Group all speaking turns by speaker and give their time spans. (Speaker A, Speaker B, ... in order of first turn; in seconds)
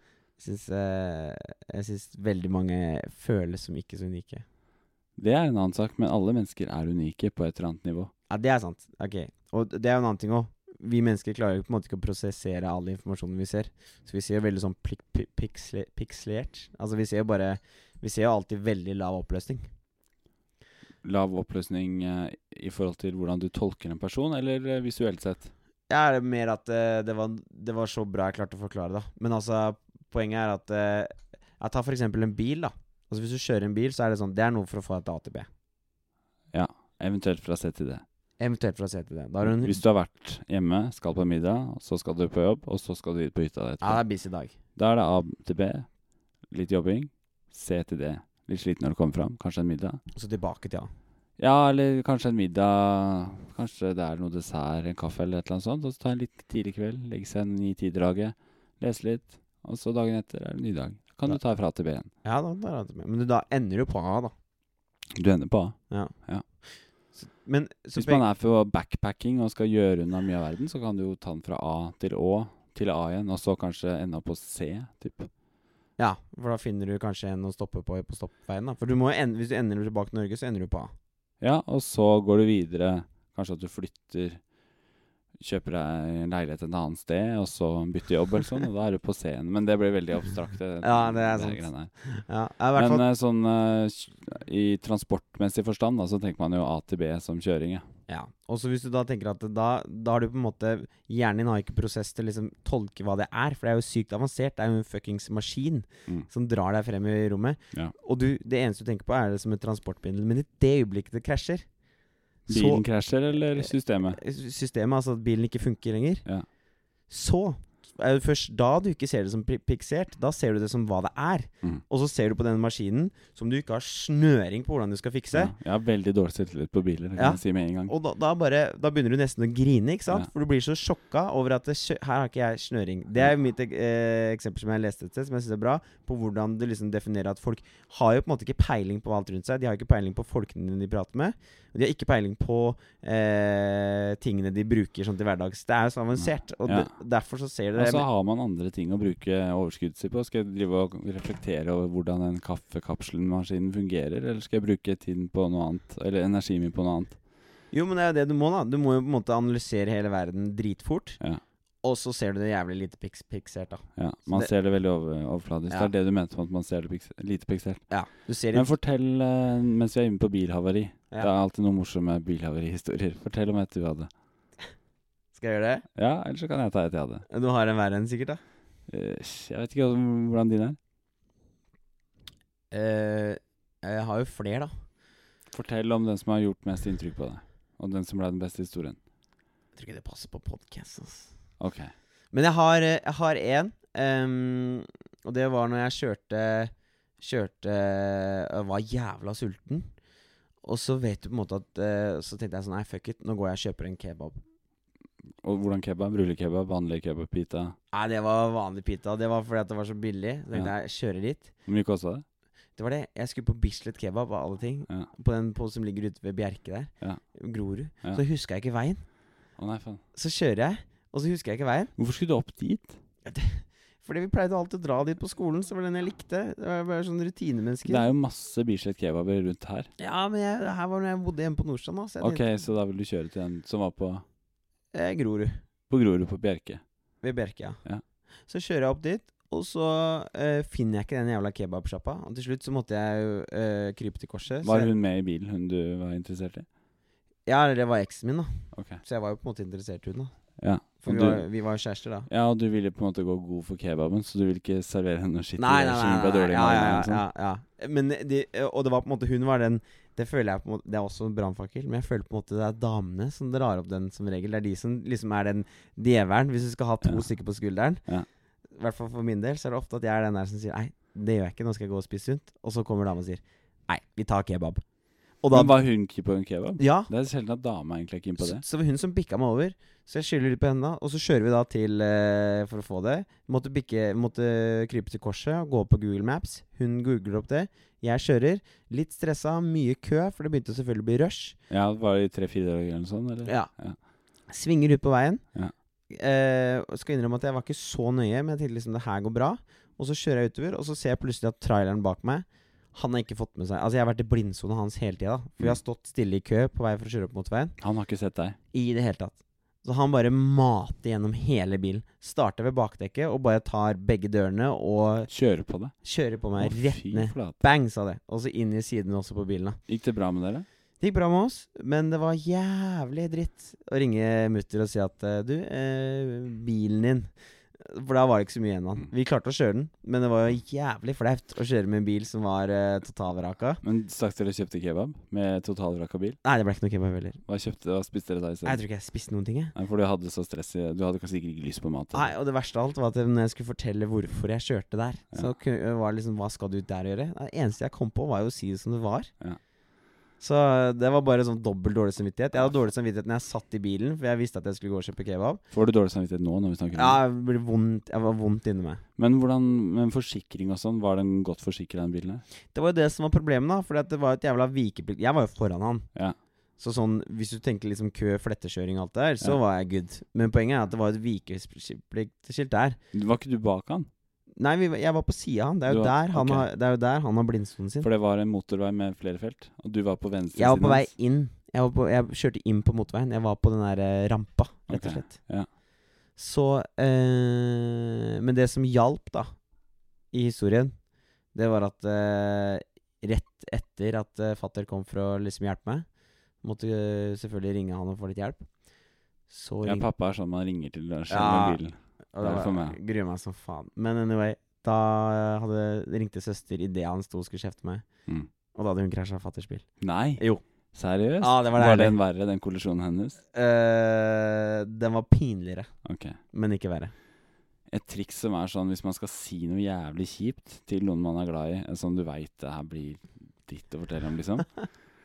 Speaker A: 0.4-4.5, 8.3-19.7, 25.9-35.5, 38.4-39.8, 43.8-44.5, 50.1-50.9, 62.2-64.3, 66.7-68.2, 76.0-80.9, 90.8-93.0, 98.1-111.7, 112.5-112.8, 113.6-116.2, 117.1-125.5, 127.2-148.0, 157.7-161.2, 161.8-164.5, 167.9-168.7, 175.3-175.8, 177.3-178.4, 182.7-184.7, 189.8-191.3, 192.3-199.9, 200.6-204.4, 207.9-211.5, 212.8-219.0, 220.2-221.9, 223.2-228.1, 230.0-232.5, 234.9-235.6, 237.2-237.8, 238.5-244.9, 247.5-248.5, 249.0-250.3, 251.0-252.3, 255.6-268.0, 268.8-274.8, 275.4-275.8, 276.8-277.1, 278.4-291.6, 294.5-295.4, 296.1-307.8, 308.7-315.3, 316.0-319.8, 321.0-333.8, 336.4-337.4, 338.6-339.7, 342.1-349.3, 350.4-355.6, 356.9-359.0, 362.7-366.1, 366.8-373.0, 374.6-378.1, 380.6-385.4, 386.4-389.5, 390.3-390.9, 391.5-396.1, 396.6-398.7, 399.5-400.1, 401.3-401.8, 402.3-408.1, 408.7-409.9, 411.4-412.2, 413.5-415.9, 416.5-417.1
Speaker B: 5.2-8.1, 21.0-25.5, 36.5-38.0, 39.4-44.0, 44.8-45.9, 46.5-50.0, 51.4-62.1, 65.2-66.4, 68.0-75.3, 81.4-84.4, 85.4-91.9, 92.8-97.9, 112.5-114.2, 125.3-127.9, 146.2-146.9, 147.8-157.2, 164.0-167.8, 168.5-174.1, 175.9-177.2, 178.9-180.8, 185.5-189.0, 191.6-191.9, 205.4-207.8, 211.7-212.2, 219.6-220.0, 222.0-223.0, 227.8-229.9, 232.2-234.2, 235.9-236.8, 244.6-246.7, 248.7-249.0, 250.6-251.4, 252.3-257.2, 275.5-278.6, 291.7-294.0, 307.8-308.6, 315.3-315.9, 316.6-317.6, 319.9-320.7, 333.8-336.4, 337.5-338.8, 339.8-342.3, 355.7-357.2, 359.2-362.4, 373.1-374.1, 375.9-376.7, 378.0-381.1, 384.9-385.7, 399.8-403.0, 410.0-410.4, 410.9-413.4, 416.1-416.4, 417.9-424.7